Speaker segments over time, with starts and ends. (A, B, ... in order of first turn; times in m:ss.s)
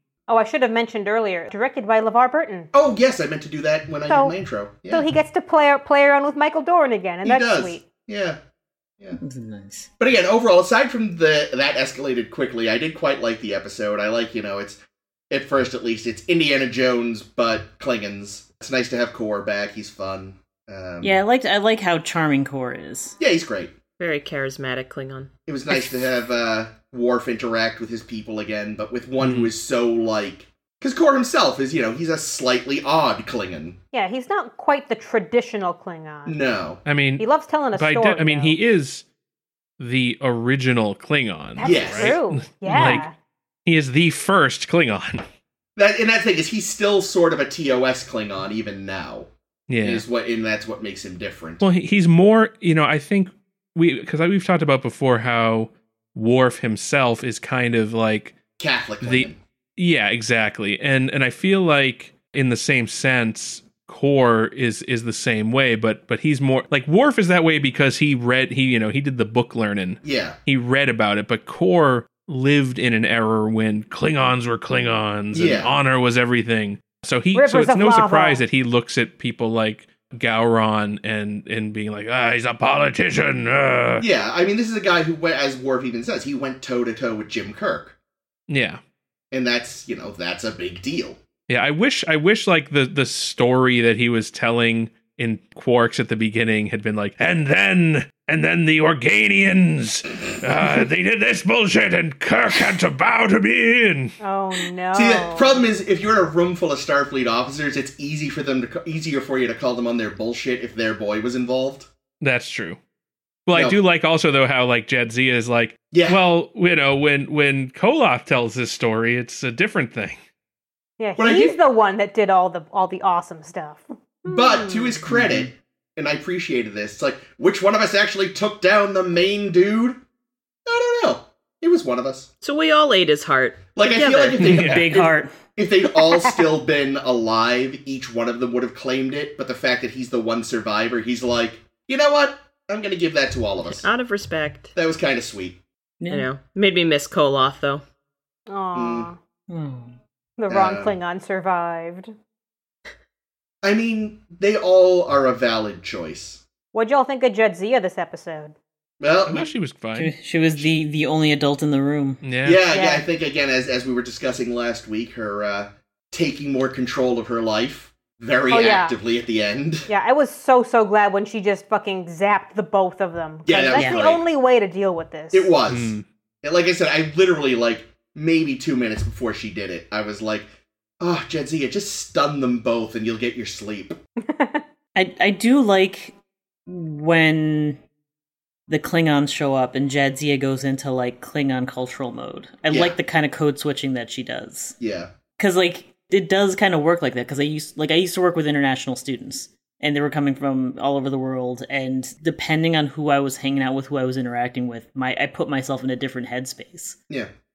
0:00.3-0:02.7 A
0:02.7-0:05.0 B
0:04.1-0:04.3 A
0:04.9-0:07.8 A
0:07.2-0:08.4 B
0:09.2-0:09.9 C
0:10.0-0:21.2 B
0:21.0-0:23.2 C
0:23.2-0:23.7 B
0:24.0-0:25.3 D
0:25.5-0:33.8 B
0:29.2-0:29.5 E
0:33.9-0:36.4 A
0:36.2-0:36.8 B
0:36.8-0:39.0 E
0:37.2-0:38.6 A
0:39.8-0:43.1 E
0:41.6-0:43.1 A
0:41.6-0:42.2 B
0:42.6-0:43.0 C
0:43.6-0:45.2 E
0:45.8-0:49.3 B
0:49.7-0:50.0 E
0:49.8-0:51.6 B
0:51.6-0:58.4 E
0:58.6-0:59.4 B
0:59.0-1:24.0 E
1:10.0-1:10.4 B
1:15.3-1:15.8 B
1:17.3-1:18.4 A
1:24.0-1:27.9 B
1:28.5-1:28.8 E
1:29.3-1:31.2 B
1:31.5-1:44.1 E
1:44.2-1:45.6 A
1:44.9-1:51.9 B
1:52.2-1:52.8 E
1:53.5-2:00.2 E
1:53.5-1:53.8 B
1:55.9-1:56.2 B
2:01.0-2:05.0 A
2:01.2-2:01.6 B
2:04.2-2:10.0 B
2:05.1-2:05.5 C
2:10.6-2:12.3 B
2:12.4-2:14.4 D
2:13.8-2:23.9 B
2:14.4-2:14.9 E
2:14.4-2:15.3 C
2:16.0-2:16.4 A
2:23.7-2:24.7 D
2:24.7-2:25.6 B
2:26.0-2:26.3 C
2:26.1-2:27.8 D
2:28.5-2:29.2 A
2:28.7-2:29.1 B
2:29.5-2:30.0 C
2:30.4-2:32.1 A
2:30.5-2:31.0 B
2:33.6-2:36.4 B
2:36.7-2:38.5 A
2:39.0-2:39.5 B
2:39.3-2:40.1 E
2:39.9-2:42.2 C
2:42.2-2:42.6 E
2:42.4-2:49.9 B
2:42.7-2:43.0 A
2:48.5-2:49.0 A
2:49.9-2:55.5 A
2:53.4-2:54.2 B
2:53.7-2:54.1 C
2:55.3-3:04.0 B
2:55.7-2:56.0 E
3:04.2-3:04.6 A
3:04.9-3:06.1 C
3:06.7-3:07.8 C
3:08.7-3:14.7 C
3:12.7-3:13.0 B
3:14.8-3:15.1 B
3:15.4-3:27.0 C